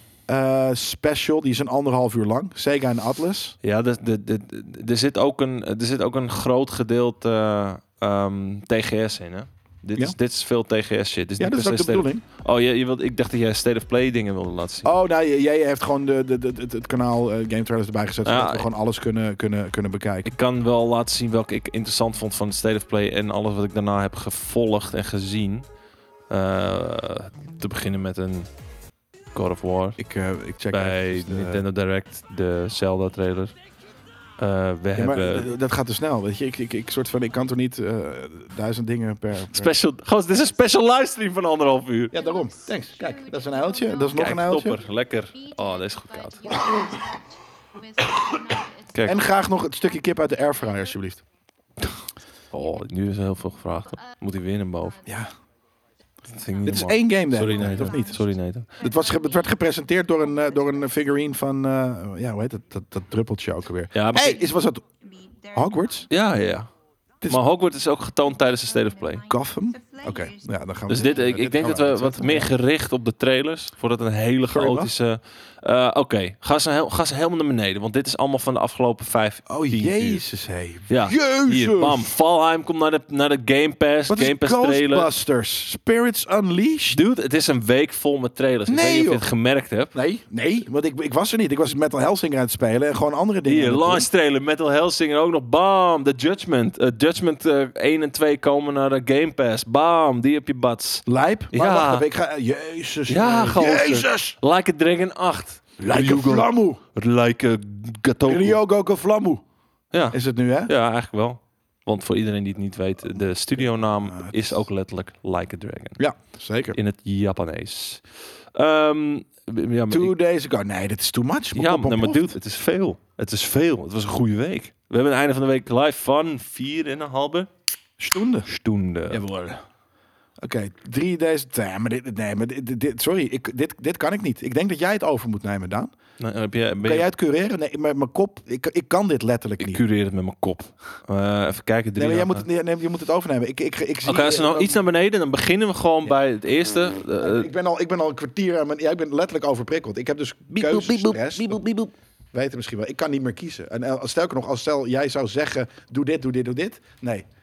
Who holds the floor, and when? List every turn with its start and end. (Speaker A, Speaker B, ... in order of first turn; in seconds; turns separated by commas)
Speaker A: 0.3-3.5, Speaker B: 3.6-14.9, Speaker A: 11.4-12.2, Speaker A: 14.8-20.3, Speaker B: 18.2-18.7, Speaker B: 20.2-25.7, Speaker B: 26.3-28.5, Speaker B: 29.3-30.0, Speaker A: 30.0-31.6, Speaker B: 30.7-33.5, Speaker B: 34.4-35.5, Speaker A: 35.0-39.8, Speaker B: 39.5-42.2, Speaker A: 42.1-44.8, Speaker C: 42.1-51.0, Speaker B: 44.1-46.6, Speaker B: 48.9-49.3, Speaker A: 49.0-51.2, Speaker B: 52.5-55.1, Speaker C: 53.9-54.2, Speaker C: 54.8-55.2, Speaker A: 55.0-55.3, Speaker B: 56.3-58.8, Speaker C: 56.3-61.4, Speaker A: 56.6-58.3, Speaker A: 58.8-64.8, Speaker B: 63.9-64.4, Speaker C: 64.1-66.1, Speaker A: 65.5-66.1, Speaker B: 66.1-66.7, Speaker B: 67.3-69.3, Speaker C: 68.2-71.2, Speaker A: 69.3-72.5, Speaker B: 70.9-80.2, Speaker A: 74.5-74.9, Speaker A: 79.5-82.1, Speaker B: 80.9-85.1, Speaker A: 84.1-87.0, Speaker B: 86.9-89.9, Speaker A: 88.7-89.2, Speaker A: 89.9-94.1, Speaker B: 93.5-102.1, Speaker A: 101.1-104.4, Speaker B: 103.1-108.6, Speaker A: 105.8-106.8, Speaker A: 108.3-109.4, Speaker B: 109.9-116.0, Speaker A: 110.1-110.7, Speaker A: 113.6-114.6, Speaker A: 116.0-116.8, Speaker B: 116.7-120.2, Speaker A: 119.9-122.4, Speaker B: 121.5-127.5, Speaker A: 128.0-128.5, Speaker B: 128.5-129.2, Speaker A: 129.1-129.6, Speaker A: 130.4-135.9, Speaker B: 136.2-137.1, Speaker A: 136.8-139.8, Speaker B: 139.6-142.5, Speaker A: 142.0-144.8, Speaker B: 144.1-147.5, Speaker A: 147.2-151.6, Speaker B: 150.5-151.9, Speaker A: 152.3-157.3